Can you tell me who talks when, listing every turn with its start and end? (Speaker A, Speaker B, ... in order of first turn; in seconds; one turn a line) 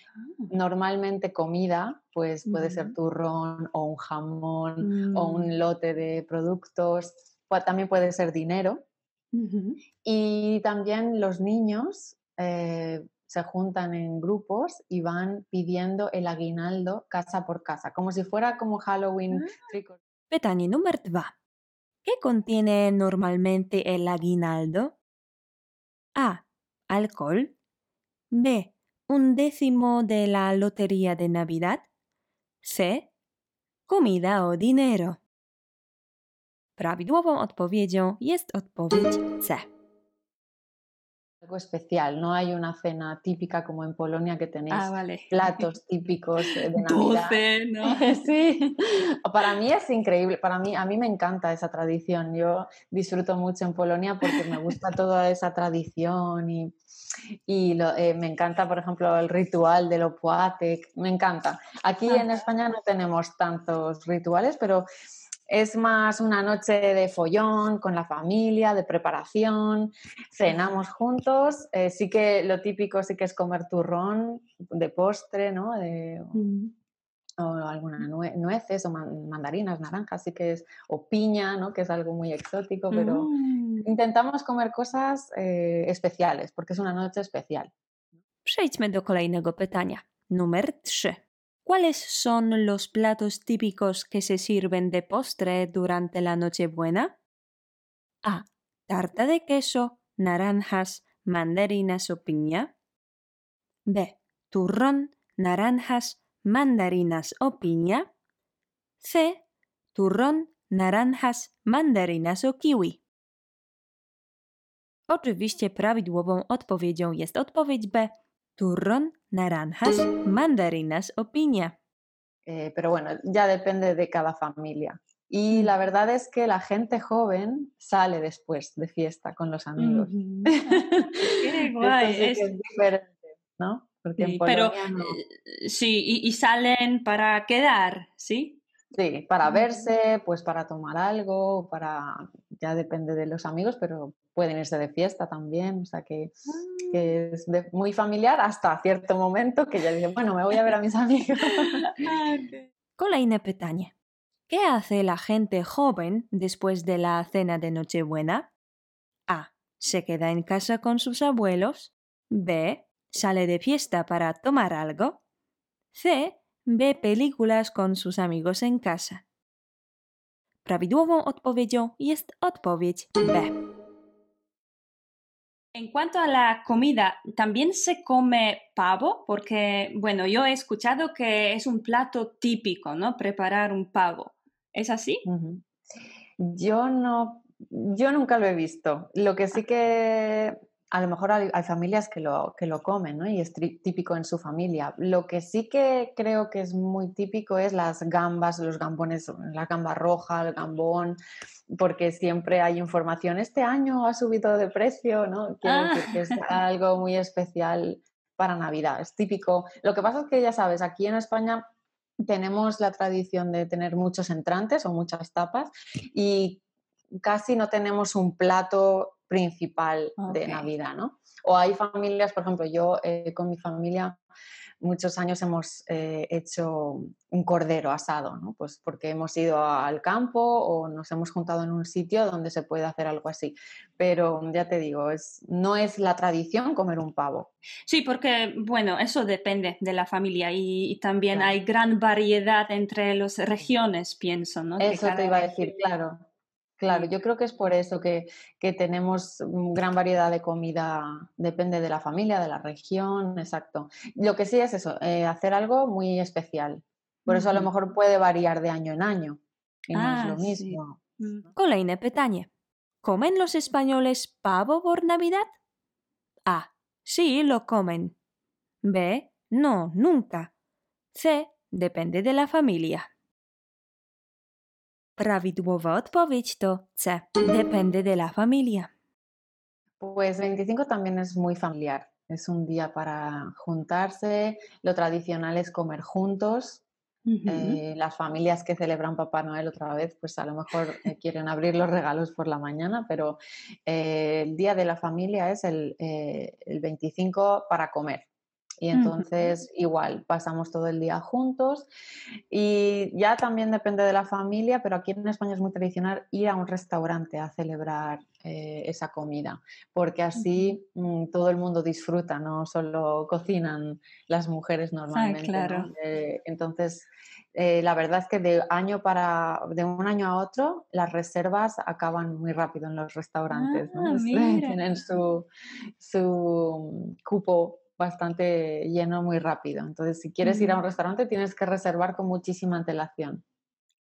Speaker A: 0.2-0.5
Speaker B: 0.5-8.8
Speaker A: 2.5-3.0
Speaker A: 4.8-5.5
Speaker A: 9.3-9.8
Speaker B: 10.0-20.0
Speaker A: 19.3-19.7
Speaker C: 20.3-21.3
Speaker C: 22.0-25.0
Speaker C: 26.2-27.6
Speaker C: 28.3-31.9
Speaker C: 32.6-33.1
Speaker C: 33.9-35.2
Speaker C: 36.8-39.7
Speaker B: 41.4-48.7
Speaker A: 44.7-45.7
Speaker A: 46.4-48.7
Speaker B: 49.2-56.8
Speaker A: 54.3-54.7
Speaker B: 57.5-64.9
Speaker A: 62.1-62.4
Speaker B: 65.5-76.4
Speaker A: 76.3-76.7
Speaker B: 77.4-83.3
Speaker A: 82.9-83.9
Speaker B: 83.8-87.7
Speaker C: 88.5-97.1
Speaker C: 98.2-102.7
Speaker C: 103.9-108.1
Speaker C: 109.0-109.4
Speaker C: 109.9-113.0
Speaker C: 115.1-121.8
Speaker B: 122.5-135.2
Speaker A: 129.8-132.5
Speaker A: 134.2-138.6
Speaker B: 138.9-146.3
Speaker A: 139.4-139.7
Speaker A: 146.5-147.2
Speaker B: 146.8-151.8
Speaker A: 151.8-152.7
Speaker C: 153.0-153.9
Speaker C: 154.5-158.5
Speaker C: 159.3-165.2
Speaker C: 165.9-169.2
Speaker C: 170.7-173.6
Speaker A: 175.8-185.2
Speaker B: 185.3-185.6
Speaker B: 186.4-201.2
Speaker B: 201.8-211.6
Speaker A: 205.7-206.4
Speaker B: 212.2-216.6
Speaker B: 217.2-224.2
Speaker A: 220.2-220.7
Speaker B: 224.8-237.5
Speaker A: 237.9-245.8
Speaker B: 241.3-241.6
Speaker B: 244.8-246.2
Speaker B: 246.8-261.0
Speaker A: 257.3-257.7
Speaker A: 259.9-261.5
Speaker C: 261.6-262.5
Speaker C: 263.0-265.5
Speaker C: 266.5-268.1
Speaker C: 268.8-270.5
Speaker C: 271.1-273.1
Speaker C: 275.2-278.9
Speaker B: 280.0-286.8
Speaker A: 287.3-287.8
Speaker B: 287.5-298.3
Speaker B: 298.8-301.9
Speaker A: 298.9-299.5
Speaker B: 302.5-325.5
Speaker A: 310.4-310.7
Speaker A: 315.1-315.9
Speaker A: 323.5-324.8
Speaker B: 326.0-333.4
Speaker A: 330.4-330.8